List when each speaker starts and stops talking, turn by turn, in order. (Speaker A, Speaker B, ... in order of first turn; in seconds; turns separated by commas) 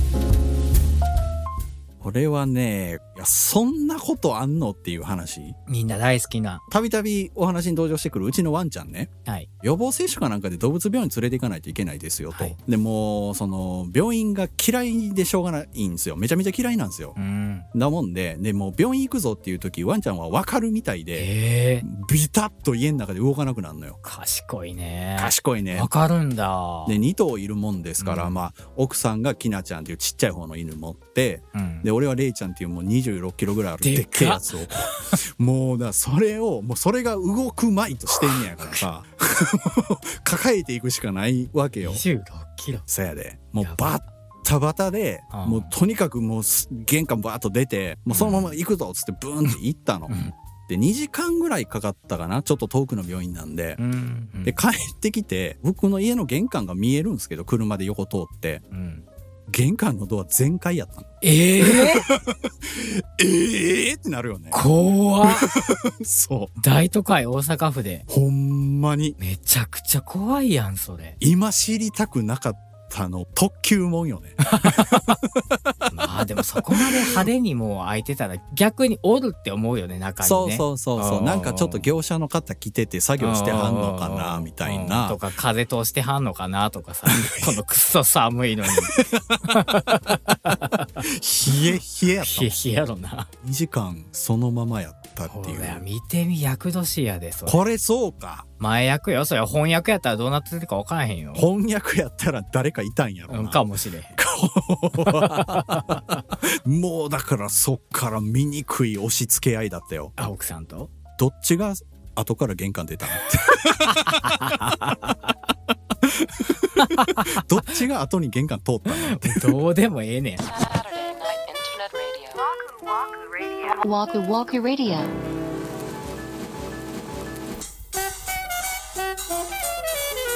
Speaker A: 2.0-5.6, Speaker B: 5.7-6.6, Speaker A: 6.7-9.1, Speaker A: 9.6-17.2, Speaker B: 12.3-12.6, Speaker B: 17.2-17.7, Speaker A: 17.7-21.3, Speaker B: 21.1-21.9, Speaker A: 21.8-24.0, Speaker B: 24.0-27.0, Speaker A: 25.2-25.9, Speaker A: 26.9-42.0, Speaker B: 28.0-28.4, Speaker B: 31.5-31.9, Speaker B: 33.8-35.2, Speaker B: 38.3-38.8, Speaker B: 41.8-42.9, Speaker A: 42.9-50.1, Speaker B: 43.6-44.0, Speaker B: 45.3-45.7, Speaker B: 48.1-48.6, Speaker B: 50.1-50.4, Speaker A: 50.7-53.8, Speaker B: 53.8-54.6, Speaker A: 54.5-58.6, Speaker B: 58.7-59.1, Speaker A: 59.5-64.6, Speaker B: 61.2-62.1, Speaker B: 64.5-65.5, Speaker A: 65.3-66.5, Speaker B: 66.6-68.1, Speaker A: 68.1-69.2, Speaker B: 69.2-71.2, Speaker A: 71.2-75.9, Speaker B: 74.4-75.2, Speaker B: 75.9-81.9, Speaker A: 76.7-77.3, Speaker A: 80.2-85.2, Speaker B: 83.2-93.3, Speaker A: 87.1-87.6, Speaker A: 88.7-89.6, Speaker A: 91.0-92.5, Speaker A: 93.4-95.8, Speaker B: 95.2-97.7, Speaker A: 97.5-98.5, Speaker B: 98.6-101.5, Speaker A: 101.3-110.3, Speaker B: 103.3-104.2, Speaker B: 105.0-106.2, Speaker B: 110.2-110.9, Speaker A: 111.2-115.1, Speaker B: 113.2-115.3, Speaker A: 116.0-119.6, Speaker B: 116.8-117.4, Speaker B: 118.9-120.5, Speaker C: 120.4-122.4, Speaker C: 123.7-125.1